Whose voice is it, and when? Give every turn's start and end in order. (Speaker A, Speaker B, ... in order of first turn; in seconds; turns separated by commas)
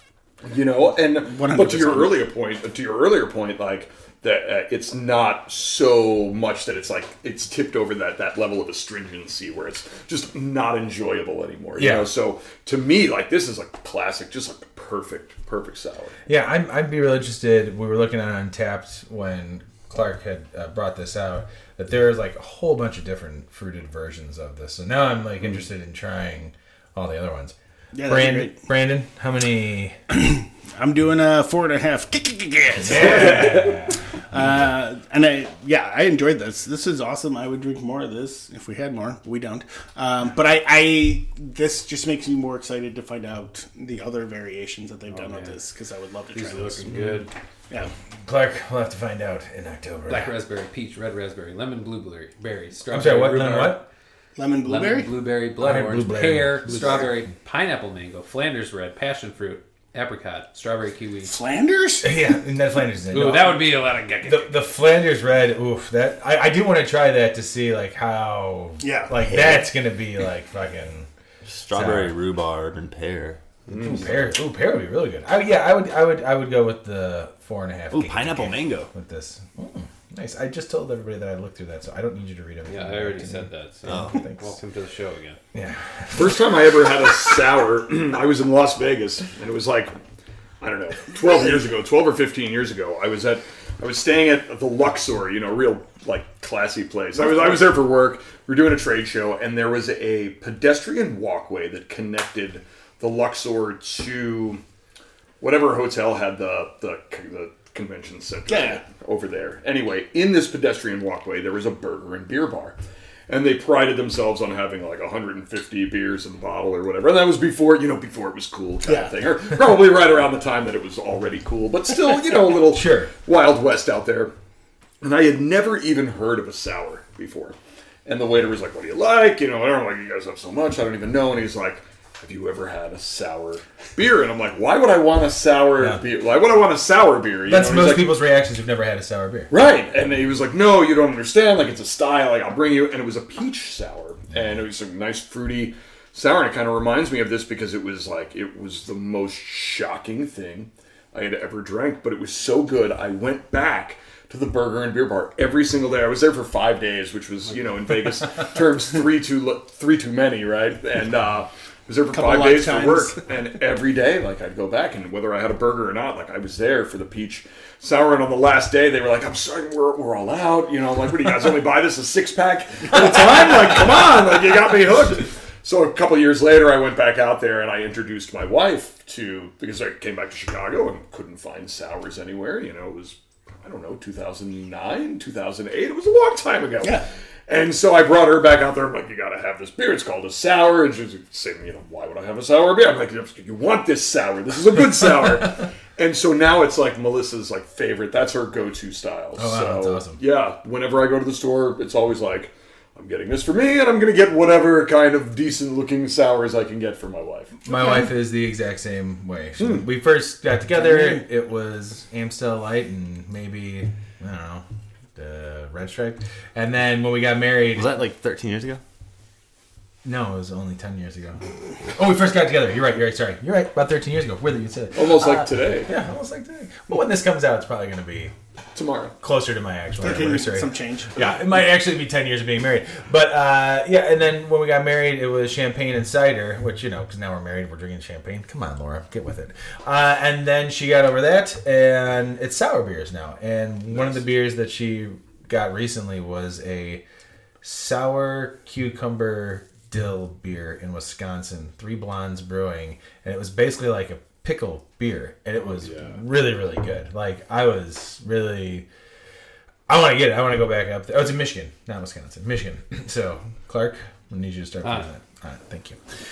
Speaker A: 0.4-16.1, Speaker B: 1.2-2.3, Speaker C: 11.8-12.1, Speaker C: 16.2-29.9, Speaker B: 27.9-28.6, Speaker B: 30.1-33.7, Speaker C: 32.8-34.0, Speaker A: 32.9-33.8, Speaker B: 34.3-46.9, Speaker D: 45.1-45.6, Speaker D: 46.3-47.3, Speaker C: 48.2-50.4, Speaker D: 50.1-53.9, Speaker C: 52.9-53.9, Speaker B: 54.4-55.2, Speaker D: 54.6-61.4, Speaker C: 55.6-57.1, Speaker B: 61.2-62.1, Speaker C: 62.0-71.1, Speaker D: 63.1-64.5, Speaker B: 68.8-69.3, Speaker E: 71.4-74.2, Speaker C: 71.7-72.1, Speaker A: 73.7-74.0, Speaker C: 73.7-84.6, Speaker E: 77.9-78.9, Speaker D: 82.7-85.4, Speaker E: 83.9-84.2, Speaker C: 85.5-86.5, Speaker A: 86.1-89.9, Speaker A: 90.6-104.6, Speaker A: 105.4-124.3, Speaker B: 108.5-108.8, Speaker B: 118.8-119.2, Speaker C: 122.7-123.1, Speaker A: 125.0-138.1, Speaker C: 137.4-139.5, Speaker A: 139.5-207.6, Speaker B: 162.1-163.2, Speaker C: 199.3-200.2, Speaker C: 207.6-214.6, Speaker A: 209.6-209.8, Speaker C: 215.2-217.9, Speaker E: 217.7-218.8, Speaker C: 220.0-221.4, Speaker C: 221.9-228.3, Speaker A: 224.9-225.9, Speaker A: 228.7-229.1, Speaker C: 229.2-247.0, Speaker B: 230.0-231.2, Speaker A: 243.9-244.2, Speaker C: 247.6-258.9, Speaker A: 255.8-256.2, Speaker C: 259.9-266.0, Speaker D: 264.8-265.1